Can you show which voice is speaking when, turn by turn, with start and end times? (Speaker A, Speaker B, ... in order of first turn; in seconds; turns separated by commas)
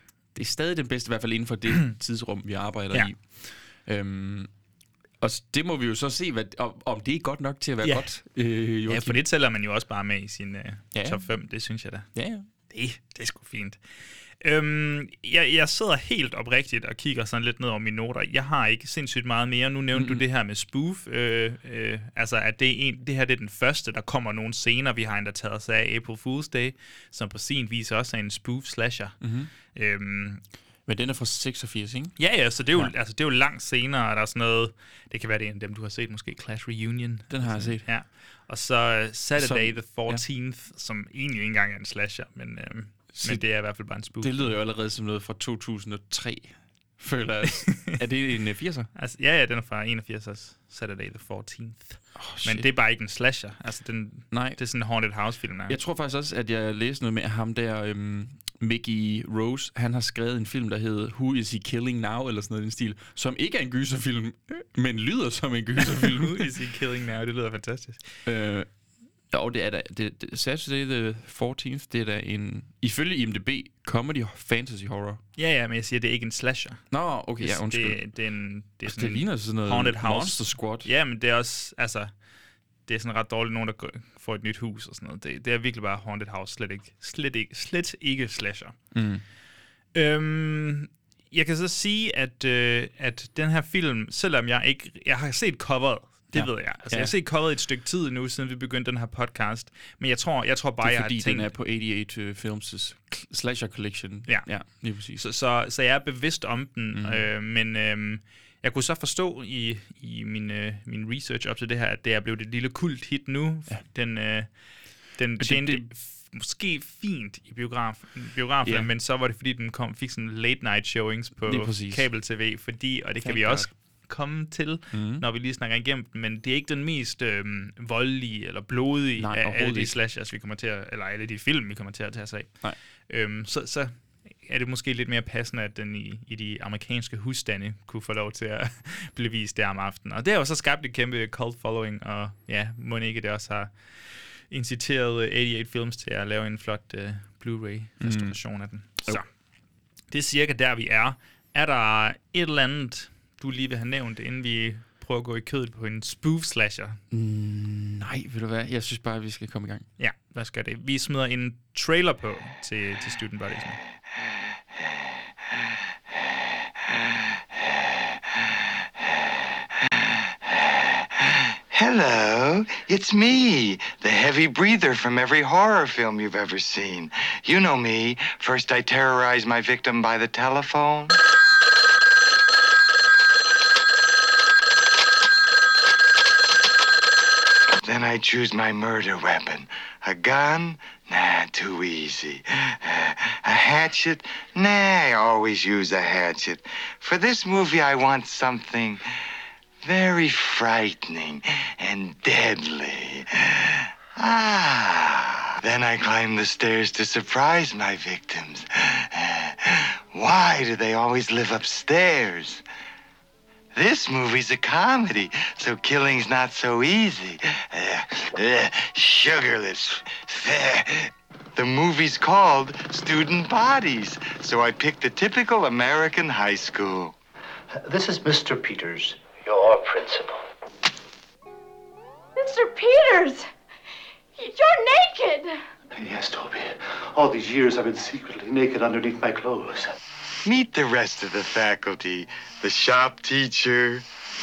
Speaker A: 0.3-4.5, Speaker A: 5.2-9.2, Speaker B: 7.8-8.1, Speaker B: 8.9-12.1, Speaker A: 10.9-11.2, Speaker A: 12.1-12.4, Speaker B: 12.7-13.8, Speaker B: 14.4-29.2, Speaker A: 19.9-20.2, Speaker A: 29.2-29.5, Speaker B: 29.7-30.4, Speaker A: 30.9-32.2, Speaker B: 32.2-44.5, Speaker A: 37.3-37.9, Speaker A: 39.4-40.2, Speaker A: 43.1-48.9, Speaker B: 47.7-47.9, Speaker B: 48.9-55.8, Speaker A: 52.1-52.7, Speaker A: 54.3-54.6, Speaker A: 55.7-66.5, Speaker B: 65.8-68.0, Speaker A: 68.2-68.7, Speaker A: 69.3-75.2, Speaker B: 75.3-76.8, Speaker A: 76.9-78.0, Speaker B: 77.4-82.1, Speaker A: 78.8-80.9, Speaker B: 82.8-88.8, Speaker A: 88.9-89.2, Speaker B: 89.9-101.5, Speaker A: 96.3-97.1, Speaker A: 100.8-105.2, Speaker B: 105.1-114.5, Speaker A: 106.9-107.2, Speaker B: 115.1-132.5, Speaker A: 115.4-115.9, Speaker A: 118.6-118.9, Speaker A: 121.4-122.1, Speaker A: 123.2-123.7, Speaker A: 124.9-125.2, Speaker A: 129.2-130.0, Speaker B: 133.1-133.9, Speaker B: 134.4-143.7, Speaker B: 144.5-149.2, Speaker A: 148.0-148.4, Speaker B: 150.1-157.0, Speaker A: 157.1-159.8, Speaker B: 160.0-163.8, Speaker C: 170.4-181.2, Speaker C: 187.8-199.0, Speaker C: 199.8-212.6, Speaker C: 213.7-227.1, Speaker D: 227.7-230.4, Speaker E: 232.4-233.5, Speaker E: 234.4-235.6, Speaker D: 235.9-239.9, Speaker C: 240.4-244.0